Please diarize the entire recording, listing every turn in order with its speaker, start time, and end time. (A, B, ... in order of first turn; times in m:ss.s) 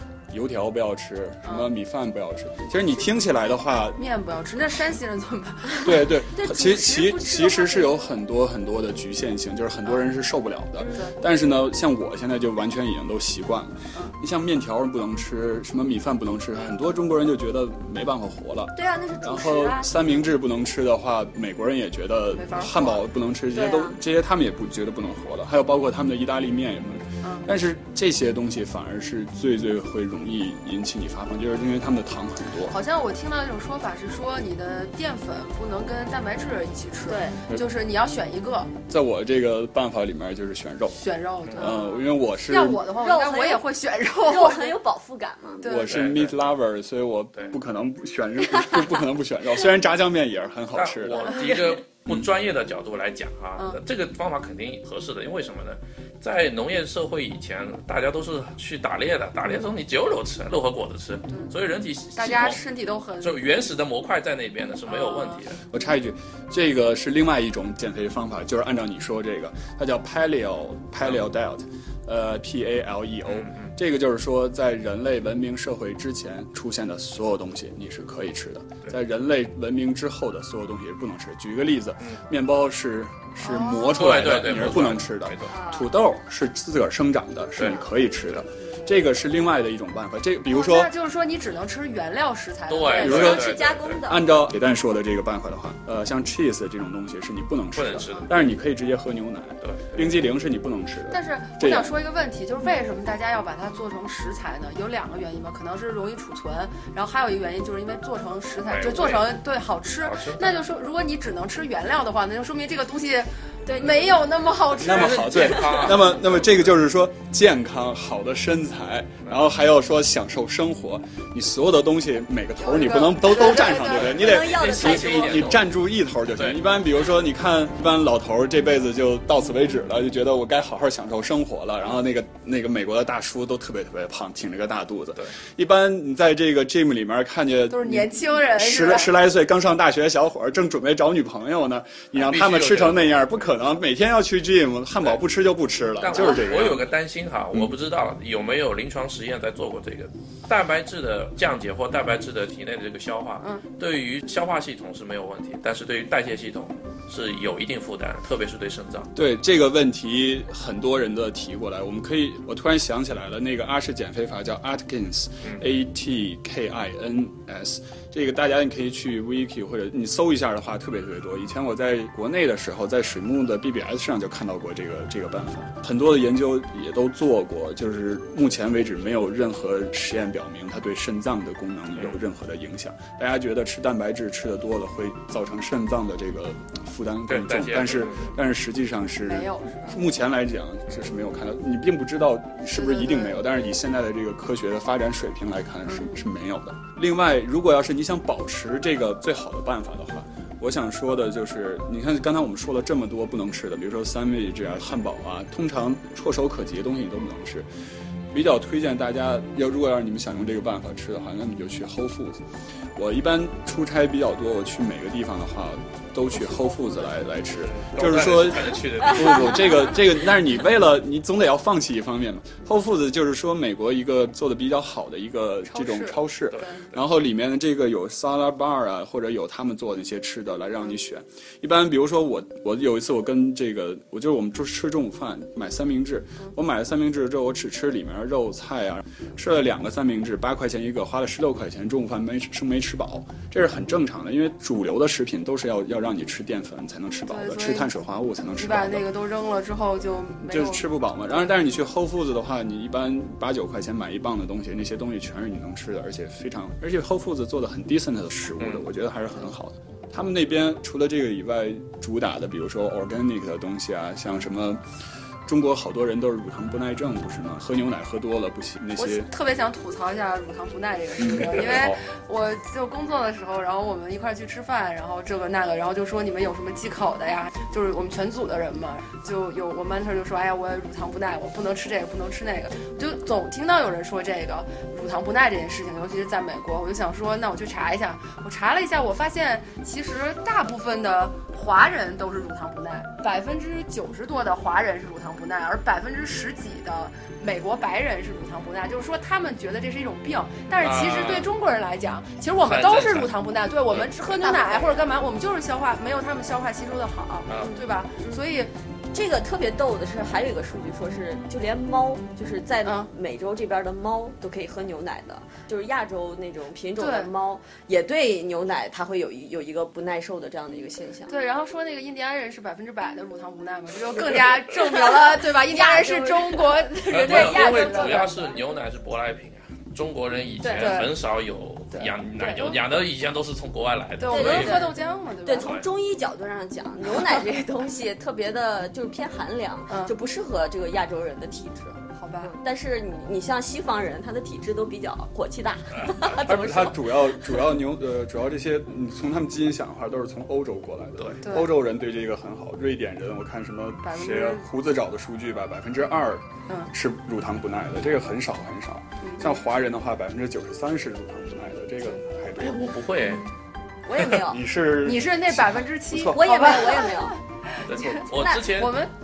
0:00.3-0:04.0 A
0:04.0-0:06.2 B
0:05.8-0:32.8 A
0:06.3-0:08.0 C
0:10.9-0:11.1 C
0:18.8-0:19.9 C
0:22.3-0:23.1 B
0:23.5-0:24.0 C
0:27.2-0:27.5 B
0:32.7-0:38.7 B
0:37.1-0:37.4 C
0:38.9-0:41.0 A
0:41.0-0:44.8 B
0:41.5-0:41.7 D
0:41.6-0:42.8 A
0:43.0-0:43.6 C
0:44.3-0:45.6 C
0:45.6-0:46.0 B
0:45.6-0:51.3 A
0:45.9-0:46.6 D
0:50.7-1:02.6 D
1:02.2-1:03.7 B
1:03.2-1:05.6 D
1:04.9-1:05.5 B
1:05.7-1:30.9 A
1:13.3-1:13.7 D
1:23.4-1:24.1 B
1:23.9-1:25.5 D
1:25.5-1:25.9 C
1:27.6-1:27.8 D
1:28.6-1:29.0 C
1:30.5-1:33.4 B
1:32.7-1:34.0 D
1:33.0-1:34.2 C
1:33.0-1:33.5 A
1:34.1-1:42.0 A
1:37.8-1:38.6 D
1:39.6-1:40.2 D
1:41.1-1:55.6 B
1:48.6-1:49.3 D
1:50.0-1:50.6 D
1:53.7-1:54.1 C
1:54.8-2:26.9 A
1:54.8-1:56.8 D
1:55.6-1:56.0 C
2:02.6-2:04.3 B
2:03.6-2:05.5 C
2:03.9-2:05.7 D
2:06.4-2:06.7 D
2:17.7-2:19.1 B
2:22.1-2:23.3 D
2:26.0-2:39.1 D
2:39.2-3:27.7 A
3:02.0-3:02.2 D
3:07.3-3:08.4 D
3:09.2-3:10.0 B
3:12.7-3:13.4 B
3:28.3-3:32.4 A
3:33.0-4:09.1 A
3:37.5-3:39.9 D
3:45.7-3:46.9 B
3:46.5-3:47.0 D
4:07.3-4:07.9 B
4:08.6-4:11.5 B
4:10.5-4:24.8 A
4:18.6-4:18.9 D
4:25.5-4:29.3 A
4:29.0-5:08.7 B
4:31.2-4:32.0 A
5:00.8-5:01.5 D
5:02.6-5:03.4 D
5:03.9-5:04.2 D
5:04.2-5:05.1 C
5:07.5-5:07.8 D
5:07.6-5:08.4 C
5:09.1-5:21.3 C
5:12.8-5:13.1 B
5:17.0-5:17.3 B
5:21.3-5:28.5 B
5:24.2-5:28.5 C
5:27.1-5:34.9 D
5:30.6-5:31.0 C
5:30.8-5:31.2 B
5:31.9-5:32.8 B
5:34.2-5:35.8 B
5:34.3-5:47.6 C
5:35.6-5:35.9 D
5:39.9-5:40.2 B
5:42.1-5:42.5 B
5:46.0-5:46.3 D
5:46.3-6:02.8 A
5:51.4-5:51.7 B
5:54.0-5:54.6 B
5:59.2-5:59.6 B
6:02.6-6:03.5 D
6:04.1-6:04.6 C
6:04.2-6:06.4 A
6:05.0-6:09.1 B
6:06.3-6:07.4 C
6:07.9-6:08.9 D
6:08.3-6:08.7 C